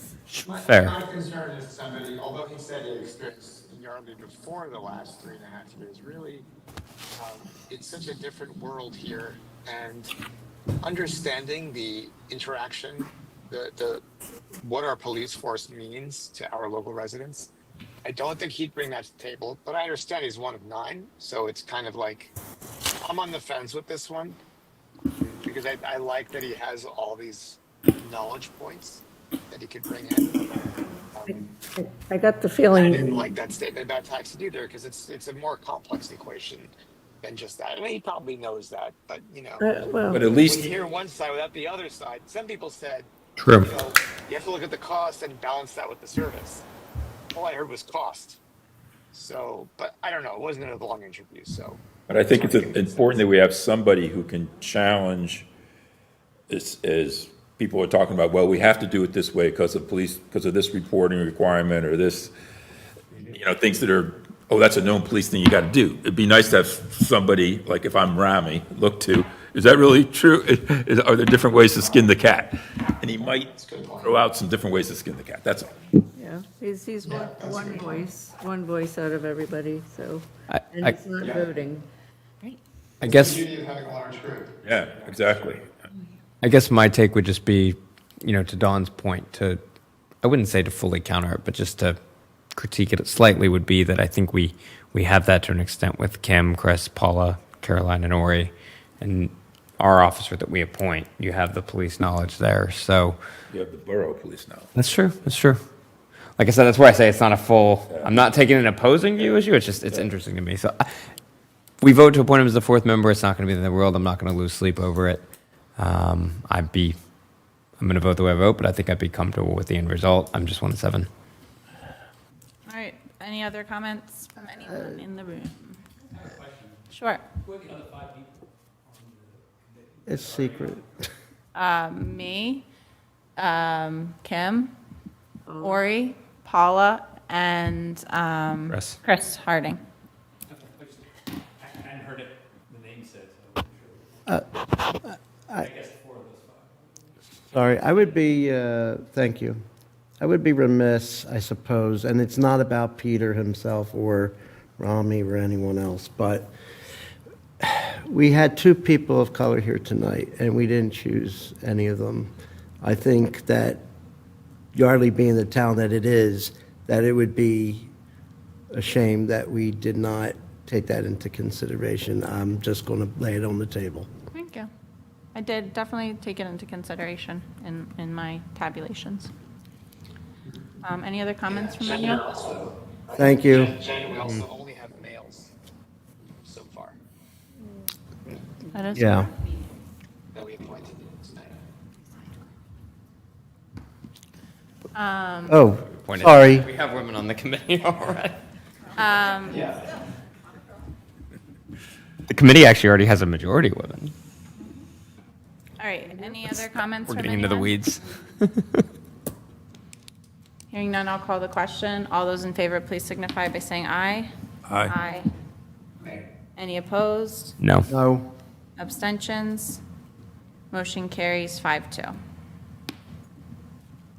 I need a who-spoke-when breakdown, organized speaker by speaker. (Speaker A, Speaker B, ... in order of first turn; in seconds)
Speaker A: 0.3-1.0, 43.4-43.7, 80.5-80.9, 83.0-83.4, 86.4-89.6, 90.2-92.0, 92.5-103.2, 104.7-105.6, 106.4-110.9, 111.8-115.2, 115.8-117.0, 117.8-121.1, 138.7-139.0, 196.0-198.3, 202.3-204.1, 206.5-208.8, 217.6-217.9
Speaker B: 0.4-6.5, 7.1-10.1, 10.8-14.0, 14.6-17.5, 18.0-22.3, 23.0-24.4, 25.2-31.5, 32.7-46.6, 47.3-48.4, 49.1-53.3, 73.4-74.2, 77.0-78.0, 81.2-81.5, 83.0-85.3, 181.5-185.5, 186.4-187.0, 190.3-191.5, 199.5-199.8
Speaker C: 31.3-33.1, 39.6-40.3, 76.2-81.8, 135.5-135.8
Speaker D: 40.1-40.7, 52.1-55.5, 56.5-62.3, 63.1-75.8, 84.6-85.7, 103.5-104.7, 107.9-108.2, 109.2-110.1, 214.7-214.9
Speaker E: 122.7-125.8, 126.9-127.2, 131.5-132.7, 133.4-134.7, 135.6-139.8, 174.3-174.7, 175.3-179.3, 180.8-182.3, 188.7-189.3, 194.9-195.6, 198.9-199.6, 205.8-207.8, 210.7-215.3, 216.6-217.6, 218.8-219.8, 220.7-222.1
Speaker F: 124.6-125.0, 130.1-131.1, 144.3-145.7, 147.5-149.6, 150.2-156.5, 157.6-162.3, 162.8-163.8, 164.7-167.9, 168.7-174.1, 183.1-184.4, 188.9-189.3, 195.5-196.7, 217.9-218.3
Speaker G: 126.1-131.0, 140.5-144.3, 145.6-147.0